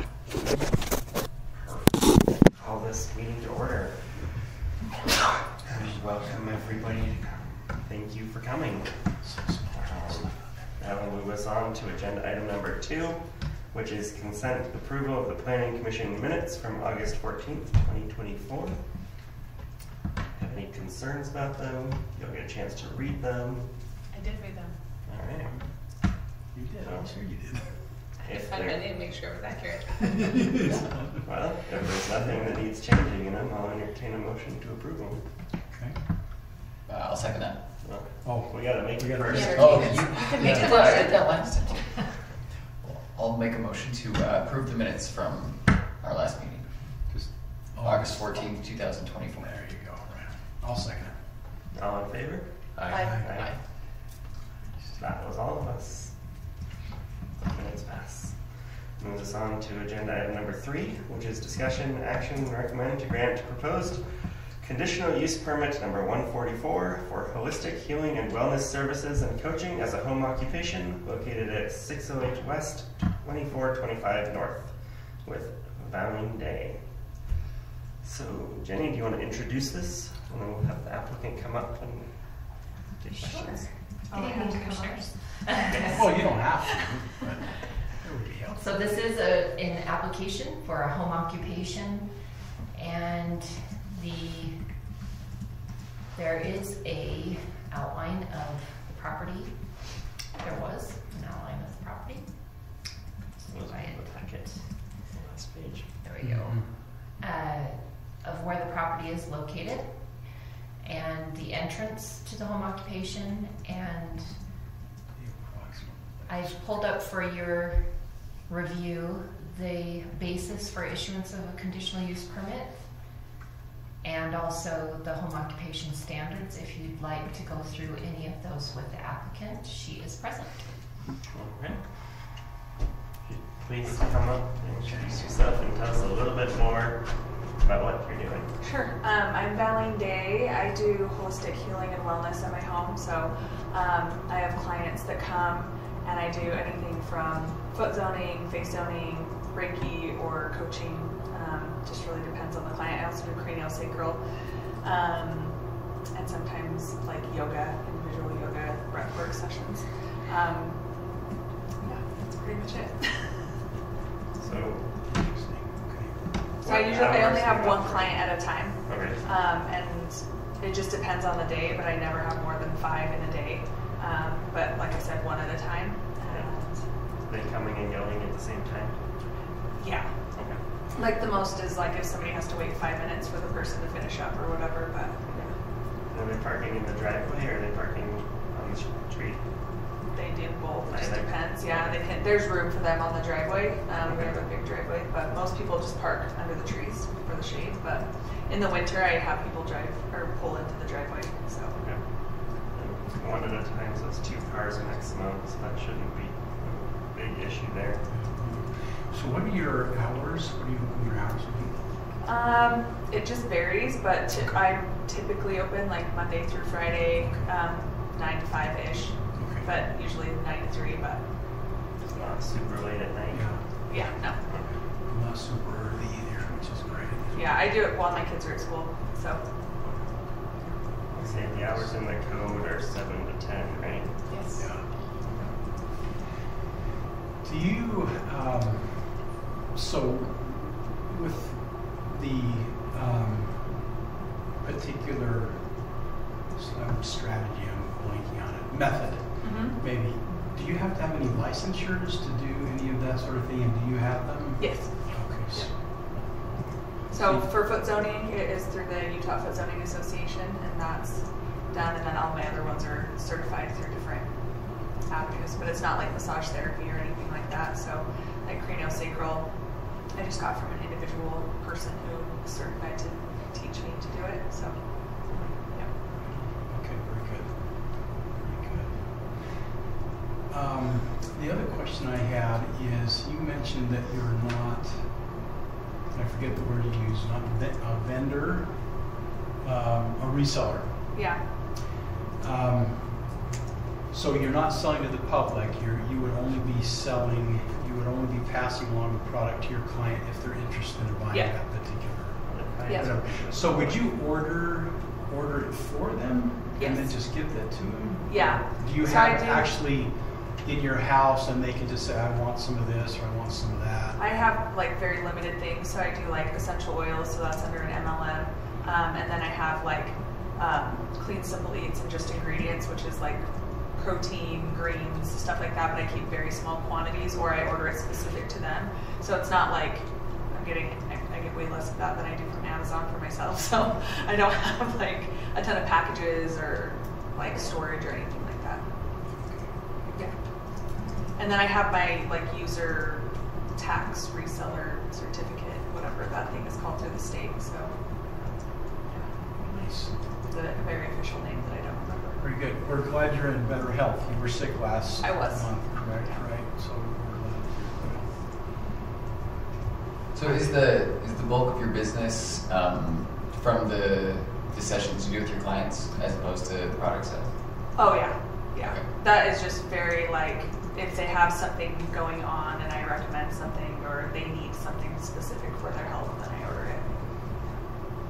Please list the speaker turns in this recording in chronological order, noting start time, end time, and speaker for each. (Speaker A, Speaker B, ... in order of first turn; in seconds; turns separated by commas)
Speaker A: 1.6-4.4, Speaker A: 5.7-6.7, Speaker B: 5.7-7.4, Speaker A: 7.8-18.9, Speaker B: 9.2-10.8, Speaker A: 20.3-24.0, Speaker C: 24.1-24.8, Speaker A: 25.0-25.6, Speaker B: 25.4-28.1, Speaker A: 26.8-27.1, Speaker A: 28.2-29.2, Speaker C: 28.5-30.0, Speaker B: 30.2-31.5, Speaker A: 31.2-35.3, Speaker B: 35.6-36.2, Speaker D: 36.9-37.8, Speaker A: 37.8-39.8, Speaker B: 38.1-41.0, Speaker C: 39.3-41.2, Speaker D: 39.5-47.1, Speaker B: 46.8-48.6, Speaker D: 47.7-49.6, Speaker B: 49.4-51.4, Speaker A: 51.7-53.6, Speaker D: 52.7-53.6, Speaker C: 52.9-53.3, Speaker B: 52.9-53.3, Speaker B: 54.8-55.0, Speaker A: 55.0-56.2, Speaker A: 57.4-77.0, Speaker A: 78.0-84.1, Speaker E: 83.1-86.3, Speaker F: 84.1-85.4, Speaker A: 85.7-86.0, Speaker B: 85.8-88.6, Speaker E: 88.5-94.8, Speaker E: 96.1-102.8, Speaker E: 103.4-104.6, Speaker A: 103.5-105.9, Speaker E: 106.0-114.5, Speaker B: 106.2-106.8, Speaker B: 115.1-116.8, Speaker E: 116.2-123.1, Speaker E: 124.0-131.0, Speaker A: 131.3-132.5, Speaker A: 133.2-138.6, Speaker B: 134.9-135.2, Speaker F: 138.6-161.2, Speaker F: 161.8-163.5, Speaker A: 164.4-164.9, Speaker B: 165.0-166.4, Speaker A: 166.6-169.2, Speaker F: 166.6-176.9, Speaker A: 176.2-179.1, Speaker F: 179.8-185.4, Speaker A: 180.3-180.6, Speaker A: 185.2-189.8, Speaker F: 190.1-201.9, Speaker A: 190.8-192.1, Speaker A: 194.0-194.5, Speaker A: 201.8-208.1, Speaker B: 208.1-212.1, Speaker F: 212.2-221.3, Speaker B: 214.3-214.7, Speaker B: 217.2-217.5, Speaker B: 219.3-219.7, Speaker A: 222.1-223.8, Speaker B: 223.1-227.5, Speaker F: 223.9-224.4, Speaker A: 224.4-224.7, Speaker F: 227.3-229.5, Speaker A: 229.8-234.3, Speaker B: 230.6-232.0, Speaker C: 234.3-234.8, Speaker B: 234.6-235.5, Speaker B: 237.4-243.9, Speaker B: 244.6-257.5, Speaker F: 249.4-249.8, Speaker F: 254.6-255.8, Speaker F: 257.1-275.9, Speaker A: 275.2-275.6, Speaker B: 276.1-279.7, Speaker B: 280.5-285.5, Speaker B: 286.1-289.0, Speaker B: 289.6-291.3, Speaker F: 291.1-291.5, Speaker B: 292.4-293.4, Speaker B: 294.1-314.2, Speaker F: 301.3-301.6, Speaker A: 302.4-304.1, Speaker F: 302.9-303.2, Speaker F: 306.8-307.3, Speaker F: 308.2-309.8, Speaker F: 314.1-338.9, Speaker A: 337.4-337.7, Speaker B: 339.3-339.7, Speaker F: 340.0-348.0, Speaker F: 349.1-349.4, Speaker B: 349.6-350.2, Speaker F: 350.0-352.4, Speaker B: 352.4-358.7, Speaker F: 355.2-356.5, Speaker D: 360.3-368.1, Speaker F: 367.9-377.4, Speaker D: 368.8-369.1